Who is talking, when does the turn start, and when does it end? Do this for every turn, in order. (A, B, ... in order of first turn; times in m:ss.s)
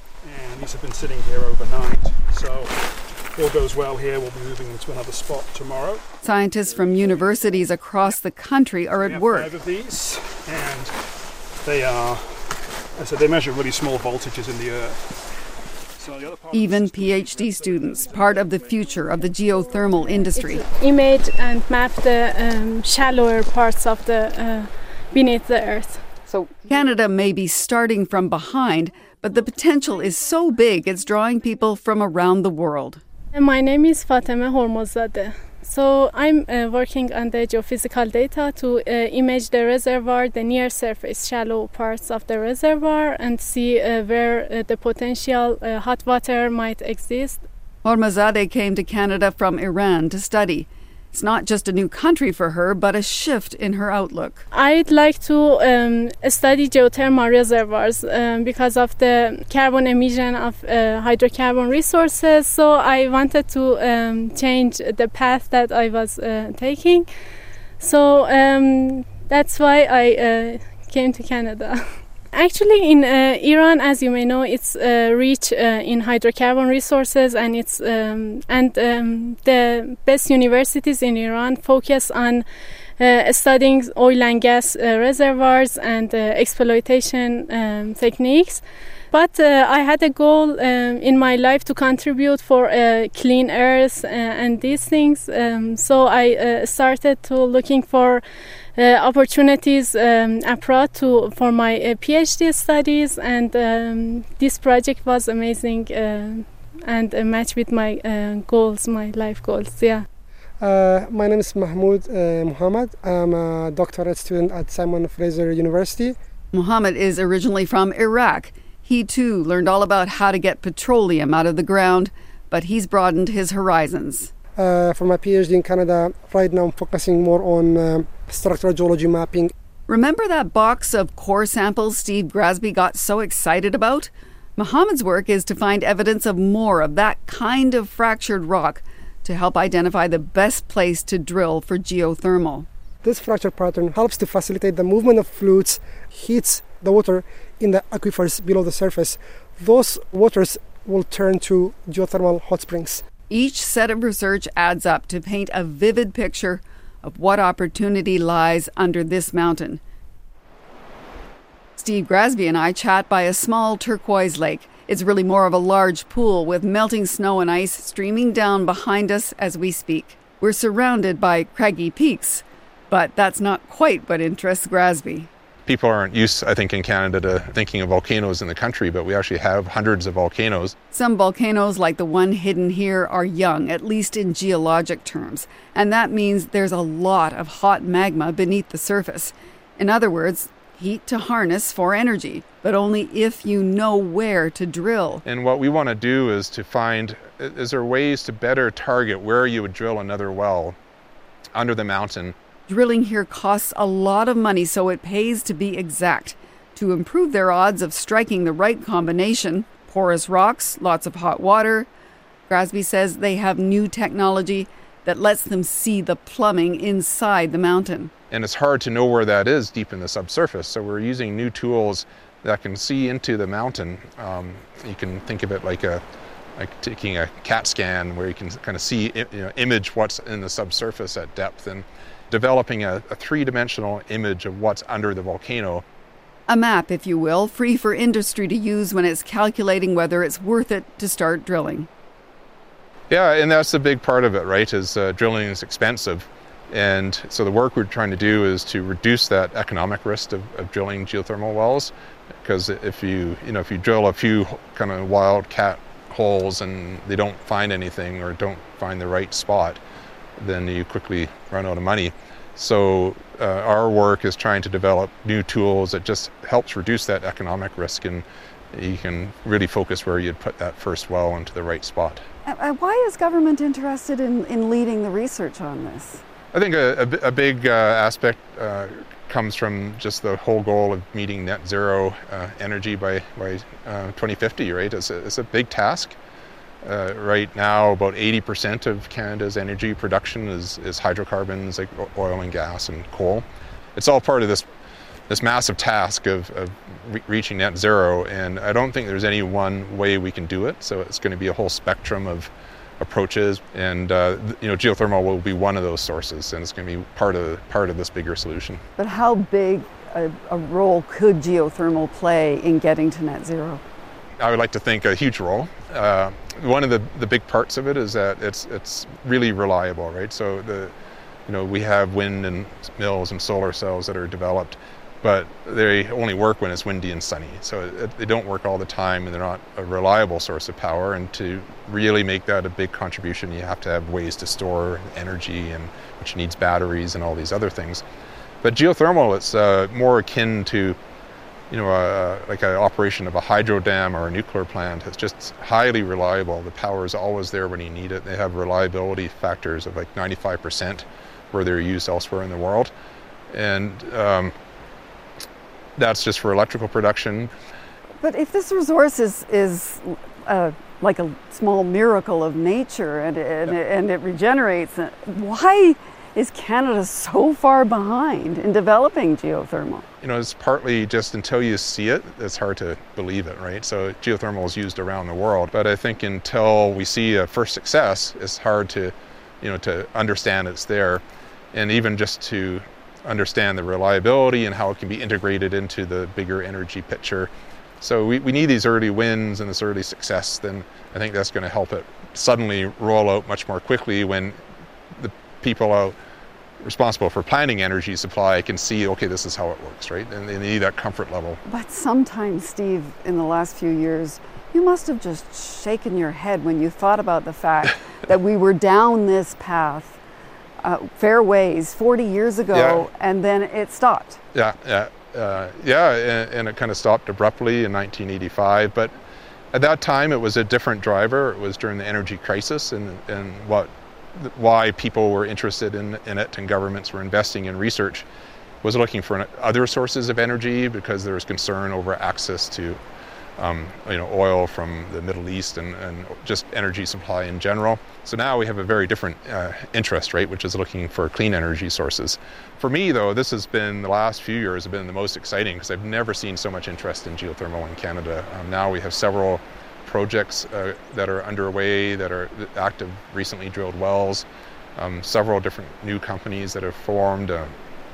0:00.2-0:08.2 A
0:06.2-0:09.6 B
0:09.0-0:19.0 A
0:16.5-0:20.6 B
0:20.5-0:26.0 C
0:26.3-0:33.0 B
0:33.3-0:47.4 C
0:47.8-0:54.4 B
0:54.5-1:07.1 C
1:07.8-1:22.5 C
1:23.0-1:50.1 C
1:50.6-1:56.2 D
1:56.5-2:04.3 B
2:04.6-2:09.5 D
2:09.9-2:22.7 B
2:23.0-2:33.0 D
2:33.3-2:39.8 B
2:41.8-2:55.3 B
2:55.7-3:00.8 E
3:00.9-3:15.2 B
3:15.2-3:20.8 E
3:21.5-3:22.4 E
3:22.7-3:31.9 B
3:32.5-3:38.1 B
3:38.3-3:46.0 E
3:46.6-3:55.8 E
3:56.5-4:01.9 B
4:03.1-4:19.8 E
4:20.4-4:32.2 E
4:32.5-4:36.2 B
4:36.5-4:46.2 E
4:46.8-4:54.7 E
4:55.3-5:08.8 E
5:09.0-5:13.8 B
5:14.4-5:20.9 E
5:21.5-5:38.0 E
5:38.6-5:41.0 E
5:41.7-5:52.9 E
5:53.5-5:54.5 E
5:56.0-5:57.5 E
5:58.2-6:10.1 B
6:10.2-6:34.6 E
6:35.1-6:36.2 E
6:36.8-6:41.6 E
6:41.7-6:50.2 B
6:50.8-6:54.4 B
6:52.7-6:53.0 E
6:54.6-6:59.1 E
6:59.7-7:08.3 E
7:08.8-7:13.0 E
7:13.6-7:37.8 E